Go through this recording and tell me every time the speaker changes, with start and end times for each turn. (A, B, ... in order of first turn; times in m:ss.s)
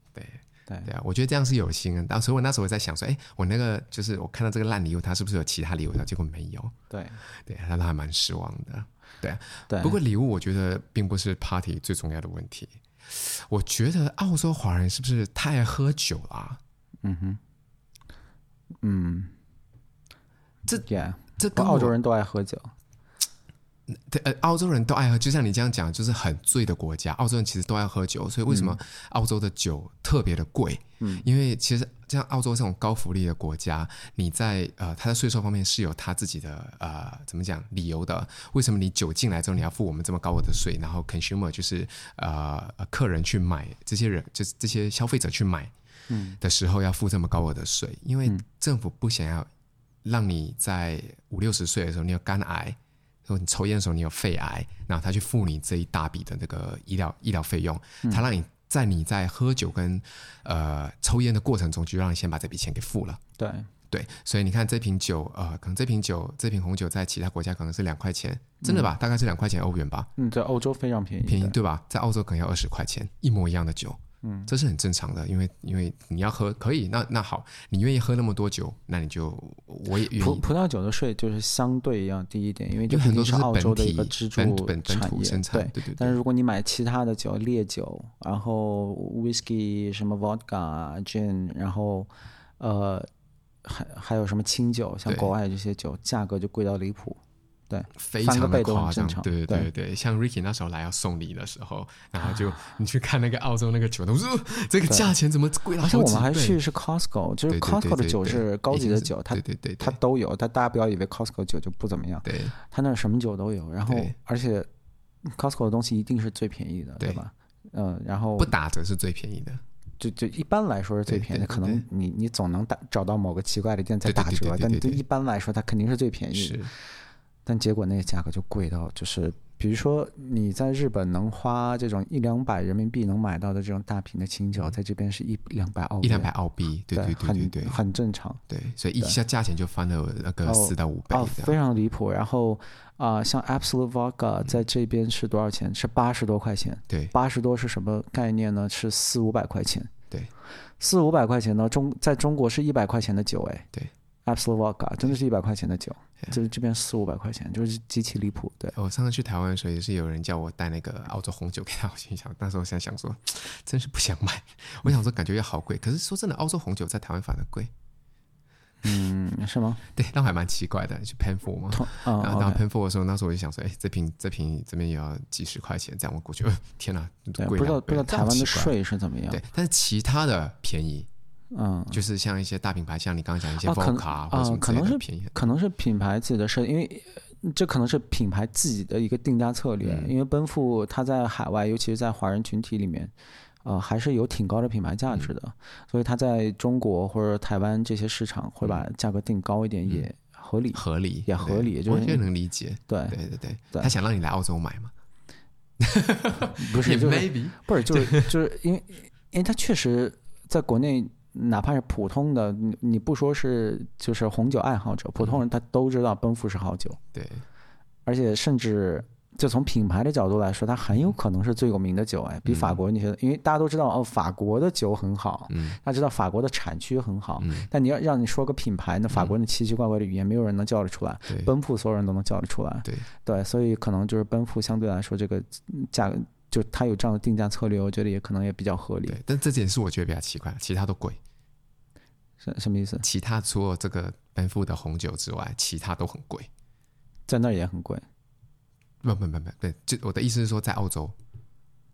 0:00.1-0:06.7 A
0:06.9-0:07.2 B
0:07.3-0:16.6 A
0:09.7-0:10.0 B
0:17.0-0:17.4 B
0:18.8-0:19.3 B
0:20.6-0:21.9 A
0:20.9-0:22.7 B
0:23.9-0:45.7 A
0:28.5-0:28.8 B
0:31.0-0:31.2 B
0:46.1-0:46.4 B
0:46.4-0:49.5 A
0:50.0-1:03.2 A
1:03.4-1:03.7 B
1:03.9-1:10.1 A
1:08.6-1:08.9 B
1:10.2-1:11.6 B
1:11.2-1:20.4 A
1:14.2-1:14.5 B
1:20.1-1:33.1 B
1:22.9-1:26.2 A
1:33.6-1:39.7 B
1:35.1-1:35.3 A
1:38.0-1:46.6 A
1:44.9-1:45.1 B
1:45.8-1:54.7 B
1:47.5-1:50.0 A
1:52.2-1:52.5 A
1:53.8-1:54.1 A
1:55.2-1:58.5 B
1:58.4-1:59.6 A
2:00.0-2:06.7 B
2:01.1-2:01.8 A
2:04.0-2:05.0 A
2:06.3-2:06.7 A
2:07.4-2:16.3 B
2:16.0-2:17.8 A
2:16.9-2:18.4 B
2:18.5-2:21.6 A
2:20.4-2:29.9 B
2:30.8-2:33.7 B
2:34.2-2:38.7 B
2:38.7-2:47.7 A
2:48.8-2:49.8 B
2:49.9-2:58.7 A
2:51.7-2:52.6 B
2:57.4-2:59.4 B
2:59.3-3:01.1 A
3:01.5-3:02.0 B
3:01.9-3:05.4 A
3:03.6-3:13.1 B
3:09.8-3:10.1 A
3:13.6-3:22.2 B
3:20.7-3:24.9 A
3:22.9-3:23.2 B
3:25.8-3:28.3 A
3:26.6-3:37.0 B
3:37.1-3:37.4 A
3:38.0-3:59.2 B
3:42.4-3:42.8 A
3:45.5-3:45.8 A
3:47.4-3:47.7 A
3:59.1-4:01.2 A
4:02.4-4:03.0 B
4:03.0-4:06.5 A
4:07.3-4:08.0 B
4:09.0-4:11.1 A